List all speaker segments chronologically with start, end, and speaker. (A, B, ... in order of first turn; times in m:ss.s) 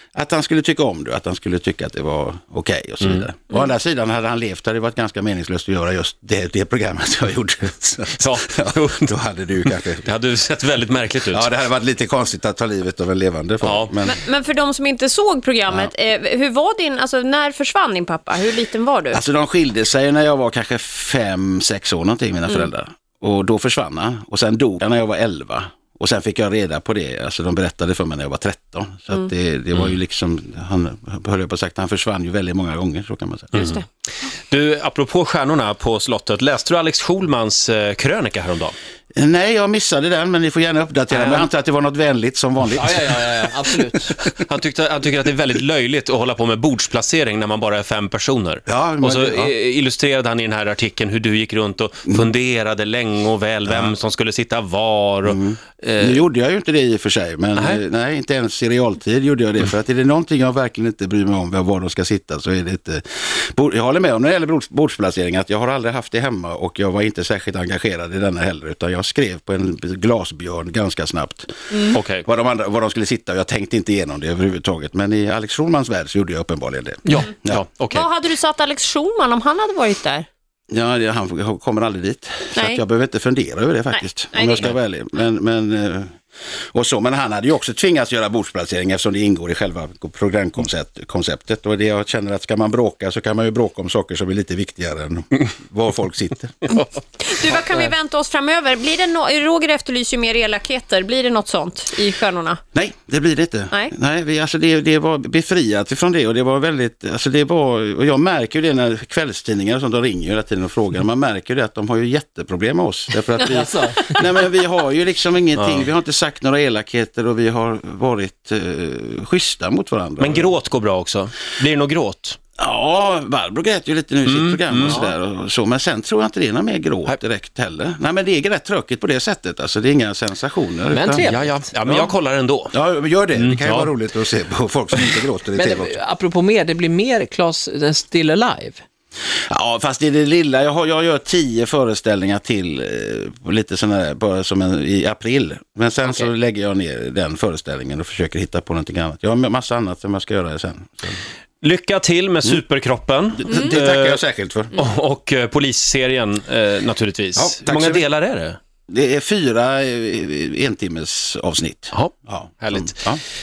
0:00.1-0:10.0 A
0:08.2-0:09.1 B
0:09.6-0:11.5 B
0:11.3-0:14.2 A
0:13.6-0:14.0 B
0:14.0-0:19.2 C
0:19.1-0:33.6 A
0:33.5-0:33.8 B
0:33.5-0:33.8 C
0:34.5-0:38.7 B
0:39.1-0:43.5 A
0:41.1-0:41.5 B
0:42.7-0:43.5 B
0:42.8-0:44.2 D
0:44.1-0:56.2 B
0:48.7-0:49.5 A
0:55.2-1:11.5 A
1:11.7-1:12.0 C
1:11.9-1:12.2 B
1:12.2-1:17.6 A
1:17.0-1:18.0 B
1:17.9-1:20.2 C
1:20.7-1:26.1 A
1:22.5-1:22.8 C
1:23.9-1:24.7 C
1:26.7-1:36.6 A
1:37.2-1:42.6 C
1:42.7-2:00.5 A
1:53.4-1:54.1 D
1:55.6-1:55.9 B
2:00.2-2:02.4 B
2:02.6-2:11.3 A
2:04.2-2:05.0 B
2:04.8-2:05.1 D
2:10.9-2:11.6 D
2:11.2-2:12.7 B
2:11.8-2:12.1 A
2:12.7-2:16.0 A
2:13.3-2:13.9 B
2:15.5-2:18.8 D
2:19.5-2:31.2 A
2:26.0-2:26.3 D
2:31.6-2:34.2 B
2:33.4-2:34.7 A
2:33.5-2:33.8 C
2:34.7-2:38.6 B
2:37.4-2:38.0 A
2:38.9-2:43.2 A
2:41.9-2:43.0 B